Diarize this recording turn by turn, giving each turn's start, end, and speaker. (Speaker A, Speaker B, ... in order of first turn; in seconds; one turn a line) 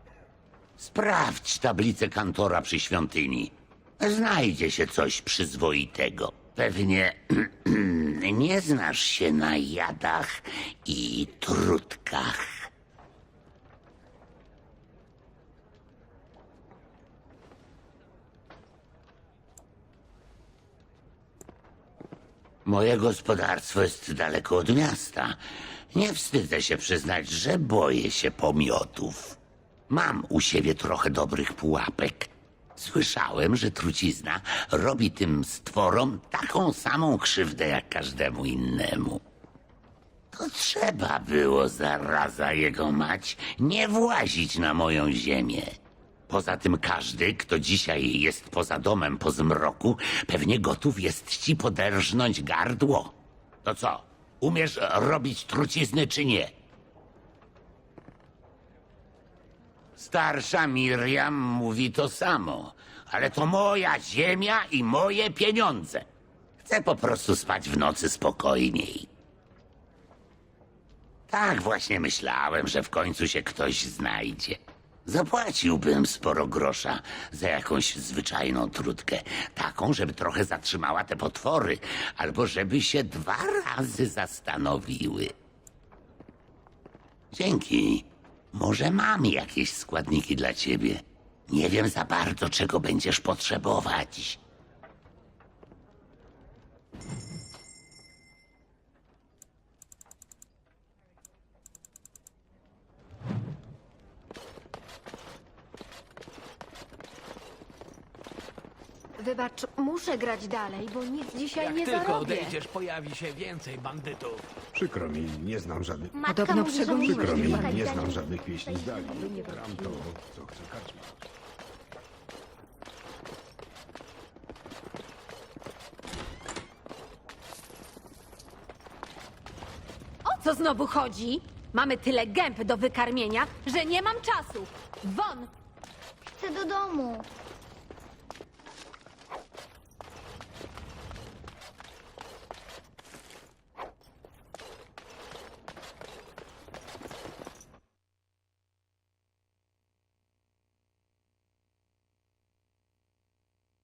Speaker A: 0.8-12.5
Speaker A: 22.6-25.4
Speaker A: 25.9-29.4
Speaker A: 29.9-39.2
Speaker A: 40.3-45.8
Speaker A: 46.3-56.5
Speaker A: 60.0-66.0
Speaker A: 66.6-69.1
Speaker A: 71.3-85.3
Speaker A: 87.3-94.4
Speaker B: 109.2-112.6
Speaker C: 111.6-112.5
Speaker D: 111.6-114.5
Speaker E: 114.7-121.2
Speaker C: 116.2-119.9
Speaker B: 116.3-118.0
Speaker B: 119.0-120.0
Speaker B: 130.3-135.5
Speaker C: 136.4-137.3